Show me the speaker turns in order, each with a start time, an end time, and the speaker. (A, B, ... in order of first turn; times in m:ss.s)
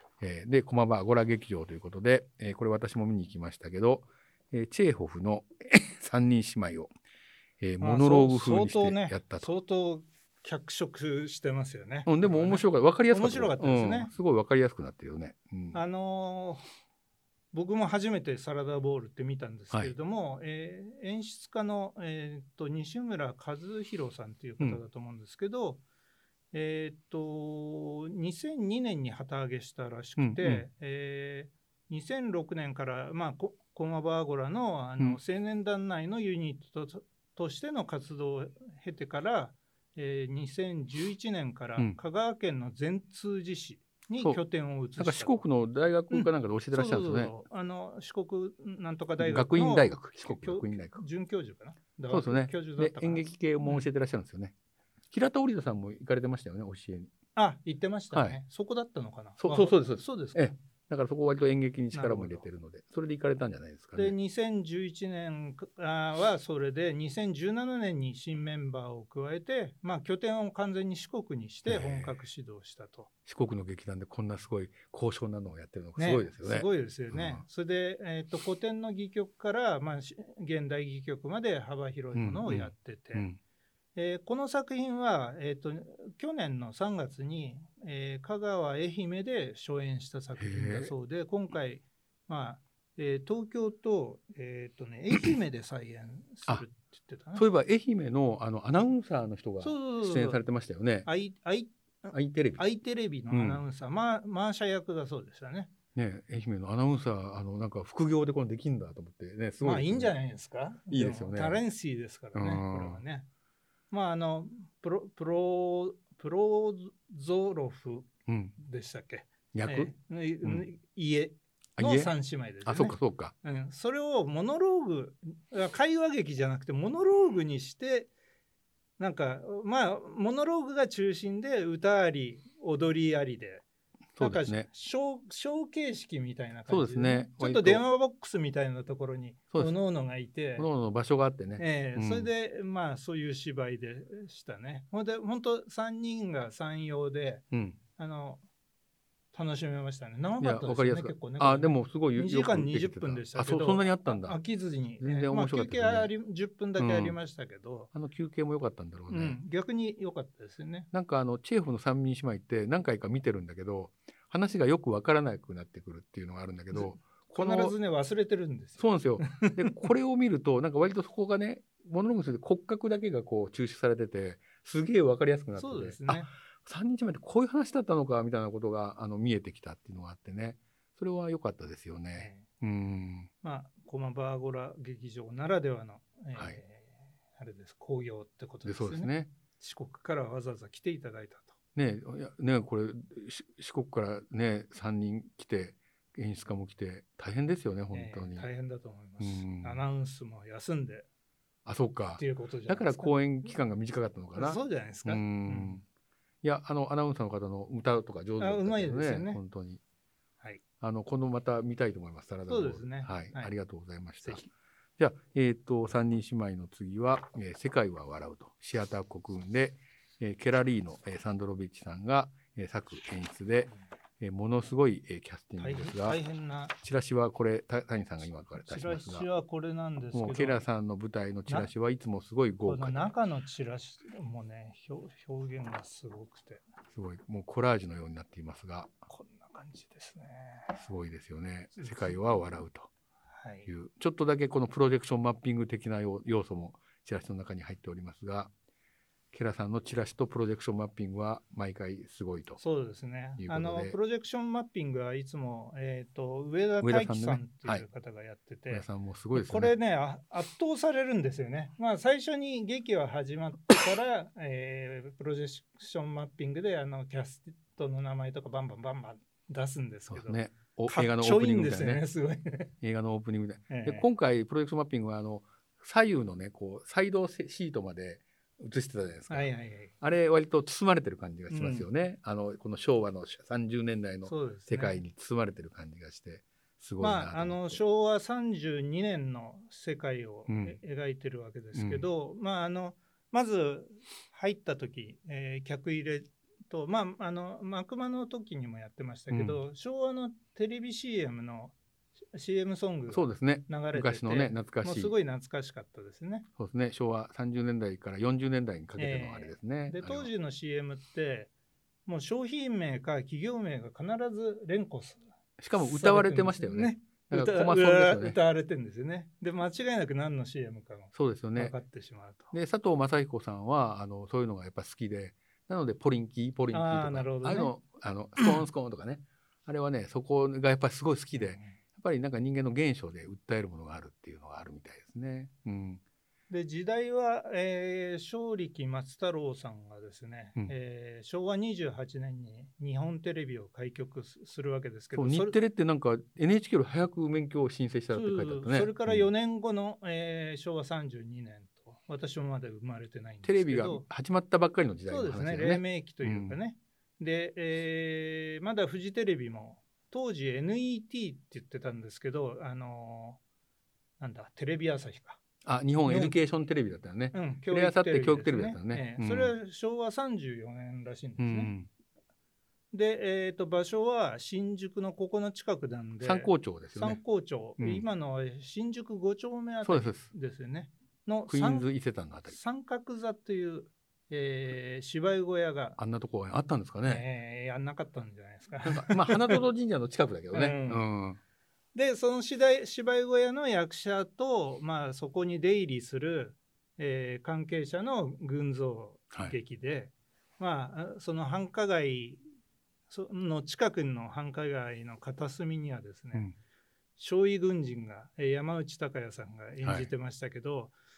0:00.2-0:06.9 A
0:07.6-0:09.5 A
0:07.8-0:14.1 B
0:12.0-0:15.8 A
0:15.7-0:16.6 B
0:17.5-0:25.8 B
0:26.5-0:45.4 B
0:30.2-0:30.6 A
0:45.0-0:47.3 A
0:46.1-0:53.9 B
0:49.2-0:51.0 A
0:52.1-0:54.5 A
0:55.1-0:57.1 A
0:57.4-1:00.5 B
0:58.1-0:58.4 A
0:59.4-1:04.2 A
1:01.9-1:02.4 B
1:04.0-1:13.1 B
1:11.7-1:12.1 A
1:13.2-1:17.4 A
1:16.0-1:23.2 B
1:22.1-1:23.4 A
1:23.9-1:37.4 B
1:30.4-1:30.9 A
1:37.4-1:41.1 A
1:39.6-1:40.4 B
1:41.0-1:45.7 B
1:42.1-1:42.6 A
1:43.3-1:43.6 A
1:45.9-1:50.1 A
1:49.6-1:53.3 B
1:50.9-1:51.6 A
1:52.3-1:53.0 A
1:53.9-2:08.1 B
1:58.3-1:58.5 A
1:59.5-1:59.9 A
2:01.8-2:03.3 A
2:09.0-2:13.6 B
2:14.2-2:14.7 A
2:14.2-2:20.7 B
2:16.7-2:17.8 A
2:20.6-2:22.3 A
2:21.6-2:27.4 B
2:27.5-2:27.8 A
2:28.0-2:28.4 B
2:29.3-2:37.9 B
2:30.4-2:34.4 A
2:35.0-2:36.1 A
2:36.8-2:37.2 A
2:37.9-2:39.4 A
2:39.1-2:40.9 B
2:40.9-2:47.8 A
2:46.7-2:49.9 B
2:48.8-3:03.3 A
2:55.6-2:56.3 B
3:02.2-3:02.5 B
3:03.4-3:11.5 B
3:08.6-3:09.3 A
3:11.8-3:18.5 A
3:17.9-3:21.1 B
3:19.2-3:19.8 A
3:21.6-3:25.8 A
3:22.2-3:23.1 B
3:24.3-3:25.8 B
3:26.4-3:29.8 A
3:28.4-3:29.4 B
3:30.8-3:46.2 A
3:32.5-3:33.5 B
3:45.6-3:46.7 B
3:46.8-3:49.3 A
3:48.5-3:50.6 B
3:50.1-3:53.1 A
3:52.6-3:56.6 B
3:56.9-3:58.9 A
3:59.1-4:00.8 B
4:00.7-4:02.9 A
4:01.8-4:02.2 B
4:03.3-4:03.7 B
4:03.7-4:08.5 A
4:09.3-4:12.6 A
4:12.6-4:32.7 B
4:13.4-4:14.0 A
4:16.8-4:17.8 A
4:18.7-4:19.7 A
4:30.1-4:32.0 A
4:32.8-4:47.8 A
4:33.7-4:34.0 B
4:39.3-4:39.9 B
4:41.5-4:41.8 B
4:44.2-4:45.0 B
4:47.0-5:01.7 B
4:50.5-4:50.8 A
4:51.7-4:52.0 A
4:59.3-4:59.6 A
5:02.3-5:06.4 B
5:03.1-5:05.1 A
5:06.6-5:10.3 A
5:09.0-5:11.5 B
5:12.0-5:15.2 B
5:15.6-5:18.4 A
5:15.8-5:22.5 B
5:21.1-5:21.7 A
5:22.5-5:36.0 A
5:26.7-5:27.7 B
5:31.3-5:31.8 B
5:36.5-5:45.6 B
5:45.1-5:49.3 A
5:48.1-5:54.0 B
5:53.4-5:56.6 A
5:55.1-6:03.4 B
6:04.2-6:05.4 B
6:05.6-6:09.5 A
6:06.0-6:06.4 B
6:07.3-6:11.7 B
6:11.4-6:11.9 A
6:12.9-6:21.9 B
6:16.2-6:17.2 A
6:17.8-6:18.0 A
6:19.8-6:20.3 A
6:21.5-6:22.6 A
6:22.5-6:26.0 B
6:26.0-6:27.2 A
6:27.0-6:29.6 B
6:28.8-6:31.4 A
6:30.5-6:31.0 B
6:31.9-6:42.4 B
6:43.1-6:46.5 B
6:47.2-6:50.9 B
6:49.8-6:50.1 A